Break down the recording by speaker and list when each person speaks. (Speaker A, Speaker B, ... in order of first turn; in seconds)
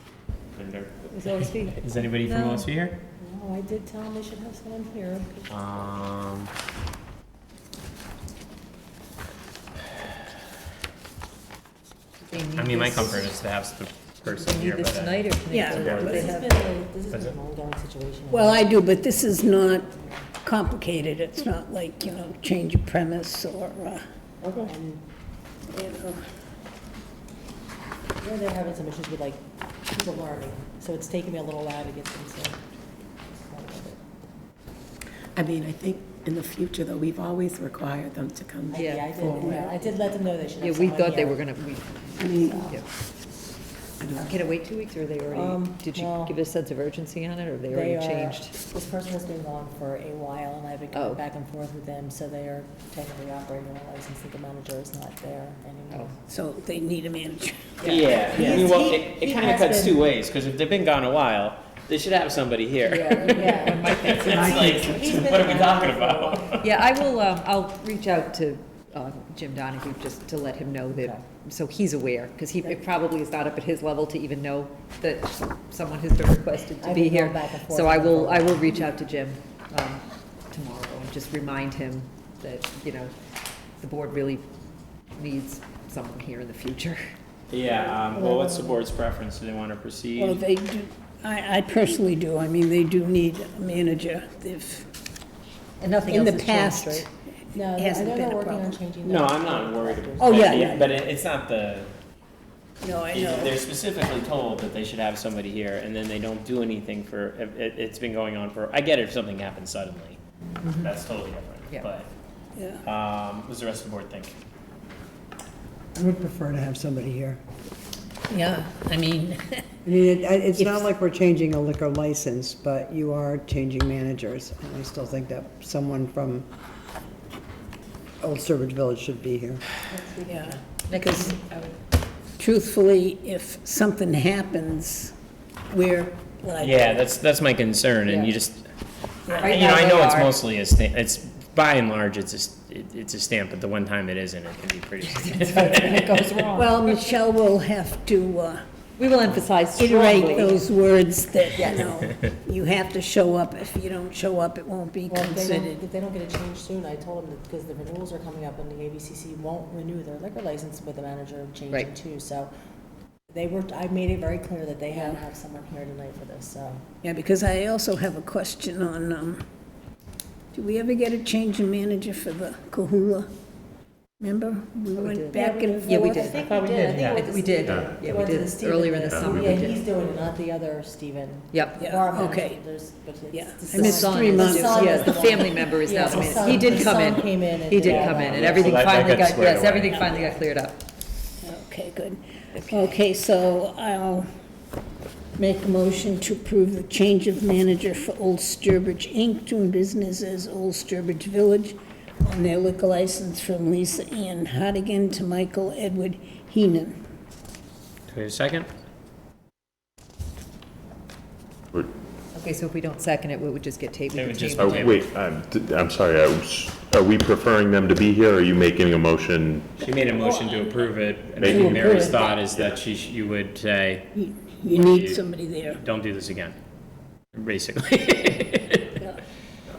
Speaker A: 0.6-3.0, 5.5-6.5, 12.6-16.4, 17.1-17.4, 24.4-24.7, 57.8-66.7, 87.5-90.4, 99.0-101.9, 103.1-112.1, 112.8-114.3, 136.6-138.7, 139.3-146.1, 176.6-177.2, 187.8-190.2, 208.1-208.7, 214.1-215.0, 219.8-224.1, 224.7-225.2, 225.8-226.5, 227.3-229.0
Speaker B: 1.1-1.8, 2.3-2.6, 12.2-13.3, 14.2-16.5, 38.7-39.1, 40.6-42.9, 44.1-48.5, 50.9-51.2, 57.8-58.2, 62.8-64.5, 66.6-83.1, 83.8-84.5, 85.2-87.0, 95.8-97.1, 129.9-131.7, 138.1-138.3, 139.3-140.4, 145.2-147.1, 149.0-150.7, 151.5-152.0, 174.9-179.8, 181.5-181.8, 183.7-190.8, 192.5-193.0, 212.3-215.0
Speaker C: 3.2-5.5, 15.8-20.3, 24.4-25.0, 28.2-32.6, 33.5-34.0, 38.7-41.4, 42.3-42.8, 45.3-46.3, 47.7-56.2, 57.9-60.0, 63.3-66.6, 70.9-71.2, 76.8-78.9, 97.5-100.8, 155.1-162.5, 163.3-166.8, 175.2-189.0, 189.9-190.4
Speaker D: 15.5-16.1, 18.3-24.0, 25.7-26.3, 56.3-57.8, 90.2-94.9, 96.1-97.1, 97.7-98.8, 100.2-100.9, 102.8-103.6, 112.5-112.8, 118.3-119.6, 130.2-131.4, 132.4-135.2, 135.7-136.9, 139.3-139.6, 146.5-148.6, 149.7-155.8, 167.0-169.4, 170.5-173.3, 174.2-176.3, 181.8-182.6, 183.3-185.4, 191.4-194.3, 195.4-207.0, 221.5-222.3, 224.1-225.8
Speaker E: 35.3-39.8, 42.2-42.7, 44.0-44.4, 64.2-65.2
Speaker F: 115.9-117.4, 119.8-126.5, 128.2-129.6
Speaker G: 177.7-178.0, 179.1-179.6, 214.6-219.8, 221.3-222.7